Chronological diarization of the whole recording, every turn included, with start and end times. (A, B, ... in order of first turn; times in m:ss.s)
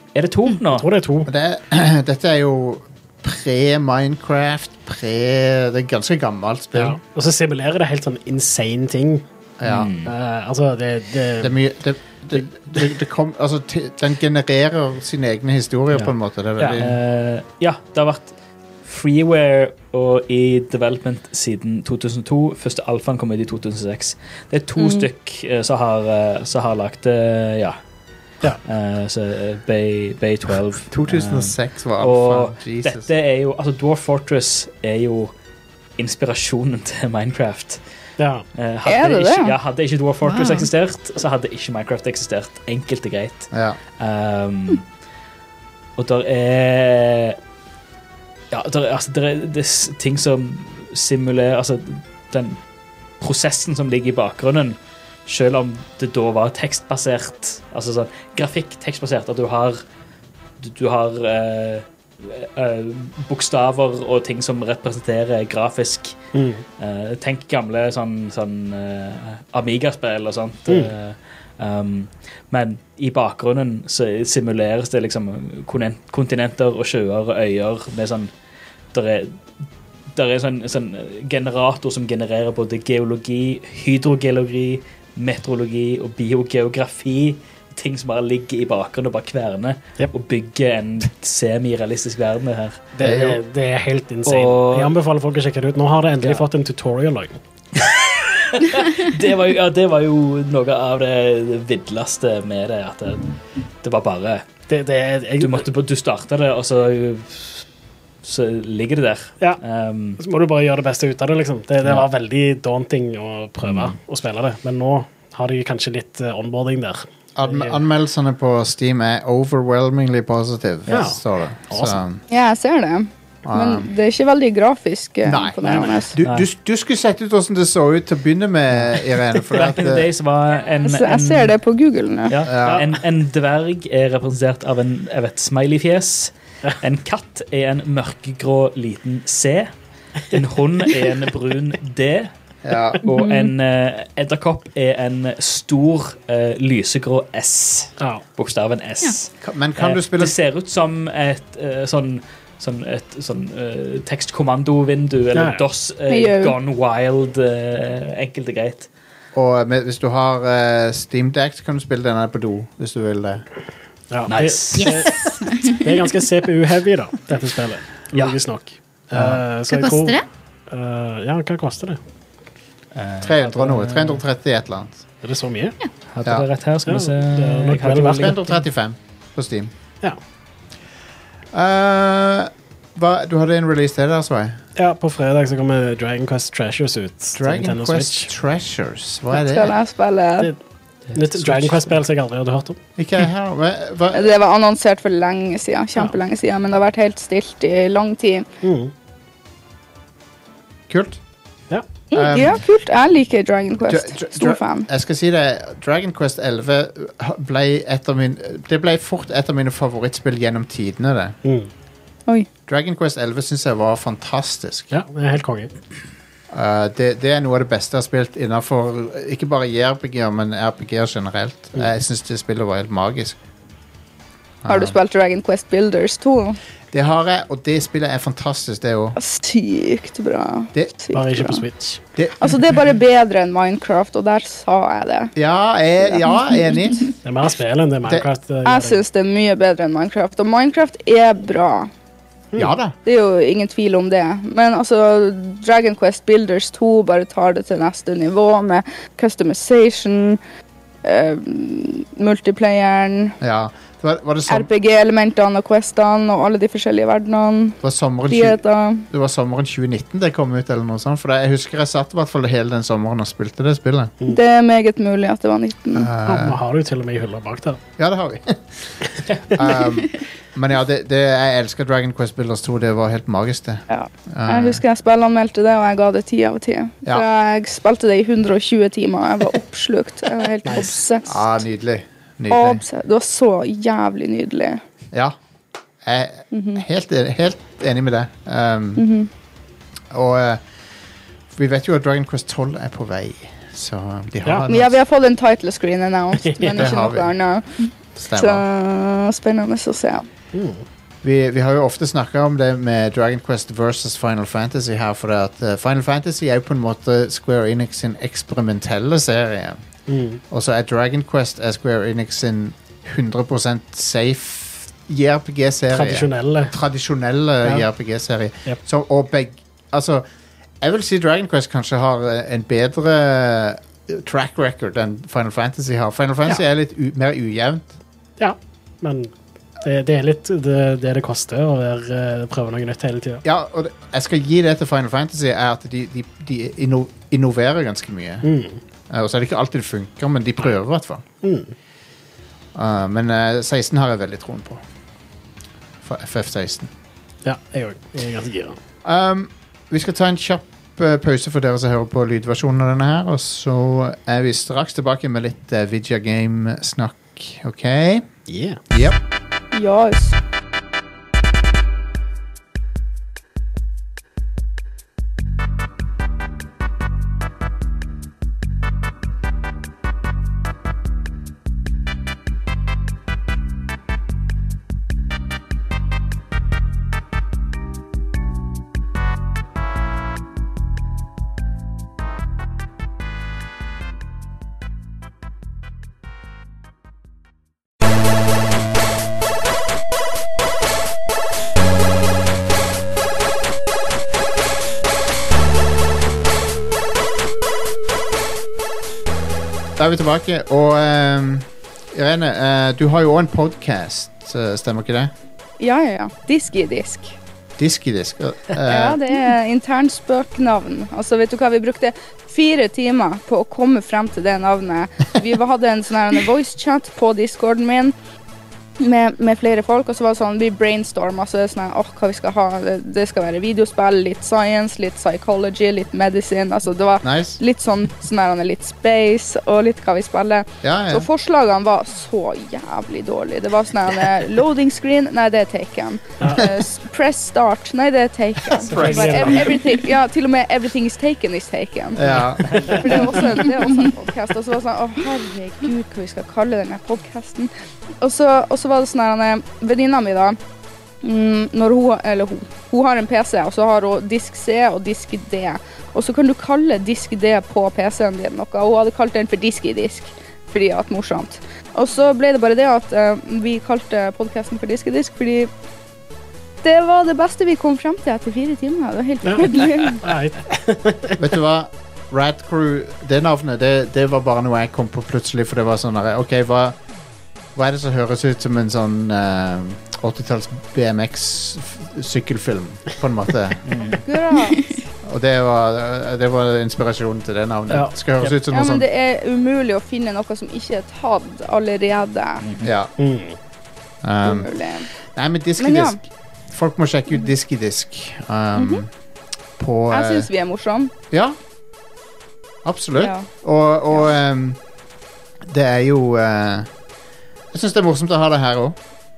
0:00.2-0:00.9 A
0:00.7-0:01.3 B
0:01.3-0:07.0 C
0:06.8-0:09.2 B
0:09.6-0:09.9 C
0:09.6-0:10.1 A
0:10.0-0:11.6 B
0:11.4-0:17.0 C
0:16.7-0:18.3 A
0:18.8-0:27.8 A
0:28.6-0:35.3 A
0:30.9-0:33.1 C
0:36.0-0:37.8 A
0:38.2-0:38.4 B
0:38.6-0:44.8 A
0:38.8-0:39.6 D
0:40.3-0:40.7 E
0:43.5-0:43.8 C
0:46.0-0:47.4 A
0:48.5-0:52.6 A
0:53.2-0:59.8 A
1:00.6-1:06.2 A
1:06.4-1:06.6 B
1:06.8-1:18.3 A
1:18.9-1:19.4 A
1:20.1-1:33.1 A
1:33.0-1:37.3 B
1:33.0-1:33.4 C
1:34.3-1:34.9 A
1:37.8-1:44.4 A
1:44.7-1:45.6 B
1:45.4-1:47.6 A
1:48.2-1:50.2 A
1:50.2-1:57.8 B
1:53.6-1:54.0 A
1:57.4-2:02.2 C
2:00.9-2:01.1 A
2:00.9-2:01.2 B
2:01.7-2:02.0 B
2:02.3-2:06.2 D
2:03.4-2:03.9 C
2:05.2-2:10.1 C
2:06.2-2:06.5 A
2:09.5-2:11.5 A
2:10.8-2:12.4 D
2:12.3-2:19.7 A
2:12.4-2:12.9 C
2:20.3-2:22.3 A
2:22.6-2:23.0 C
2:23.0-2:38.9 A
2:23.2-2:23.4 D
2:29.4-2:30.4 C
2:35.4-2:35.6 B
2:36.1-2:36.6 D
2:39.4-2:43.4 C
2:44.1-2:50.2 B
2:44.3-2:45.1 A
2:44.8-2:45.8 E
2:48.1-2:48.4 A
2:49.1-2:49.4 C
2:49.7-2:50.2 E
2:50.7-2:52.0 B
2:53.0-2:54.2 A
2:53.2-2:55.0 C
2:55.2-2:55.8 B
2:56.1-2:58.6 A
2:56.9-2:58.4 B
2:58.2-2:59.7 C
3:01.5-3:04.6 C
3:04.8-3:08.3 B
3:07.4-3:09.7 C
3:09.3-3:10.5 D
3:11.1-3:11.9 A
3:11.1-3:12.8 B
3:13.0-3:14.3 C
3:14.1-3:18.5 D
3:18.6-3:18.9 B
3:20.9-3:21.2 C
3:22.1-3:24.9 D
3:22.1-3:22.6 C
3:23.9-3:31.4 C
3:31.4-3:31.7 B
3:32.7-3:34.9 C
3:34.9-3:35.7 B
3:36.5-3:43.4 C
3:44.6-3:45.0 C
3:44.7-3:46.6 D
3:46.9-3:49.2 C
3:49.2-3:51.6 D
3:51.1-3:52.0 B
3:52.2-3:52.6 C
3:52.4-3:55.3 D
3:55.4-3:57.1 C
3:56.0-3:57.0 D
3:57.2-3:59.0 B
3:58.6-4:01.9 D
4:02.6-4:02.9 C
4:03.0-4:10.4 D
4:11.0-4:13.4 D
4:13.4-4:14.7 C
4:14.5-4:19.1 D
4:17.8-4:24.1 C
4:24.3-4:26.1 D
4:25.9-4:26.6 C
4:26.2-4:27.8 B
4:28.0-4:29.0 C
4:29.5-4:34.8 C
4:33.9-4:41.6 D
4:40.7-4:40.9 B
4:41.2-4:42.8 C
4:42.5-4:44.8 D
4:46.0-4:49.1 C
4:46.5-4:46.8 D
4:49.0-4:49.3 D
4:50.1-4:50.6 C
4:51.5-4:55.0 C
4:54.7-5:00.3 D
4:56.4-4:56.8 B
4:56.7-4:57.3 C
4:58.2-4:58.6 C
5:00.5-5:00.8 B
5:01.2-5:09.8 C
5:10.1-5:10.4 B
5:10.5-5:20.2 C
5:15.9-5:16.7 B
5:20.8-5:27.9 C
5:28.4-5:33.4 B
5:33.4-5:38.5 C
5:38.4-5:38.8 B
5:39.1-5:41.2 C
5:41.4-5:41.7 B
5:42.7-5:44.8 C
5:46.0-5:46.9 C
5:47.4-5:48.8 B
5:49.0-5:58.3 C
5:58.5-5:58.8 B
5:58.9-5:59.2 C
5:59.7-6:00.4 D
6:40.0-6:45.3 C
6:45.8-6:47.4 D
6:47.8-6:49.2 C
6:48.8-6:58.1 D
6:59.0-7:30.6 D
7:07.2-7:07.6 C
7:10.8-7:11.3 C
7:18.7-7:19.8 C
7:18.9-7:19.8 B
7:22.2-7:23.6 C
7:31.2-7:45.7 D
7:46.8-7:50.3 D
7:49.5-7:51.4 B
7:51.4-7:57.0 C
7:57.8-8:03.9 C
8:03.9-8:04.2 A
8:04.2-8:05.0 D
8:05.2-8:09.1 C
8:08.7-8:12.6 D
8:12.6-8:12.9 A
8:12.8-8:13.1 C
8:13.2-8:13.6 B
8:14.2-8:14.7 C
8:14.4-8:15.1 D
8:15.3-8:16.2 C
8:15.8-8:16.2 D
8:16.7-8:19.1 C
8:18.8-8:19.0 D
8:19.8-8:20.5 C
8:20.1-8:21.1 D
8:21.3-8:21.6 C
8:22.8-8:24.8 C
8:23.2-8:23.5 D
8:25.6-8:26.9 C
8:27.7-8:29.0 C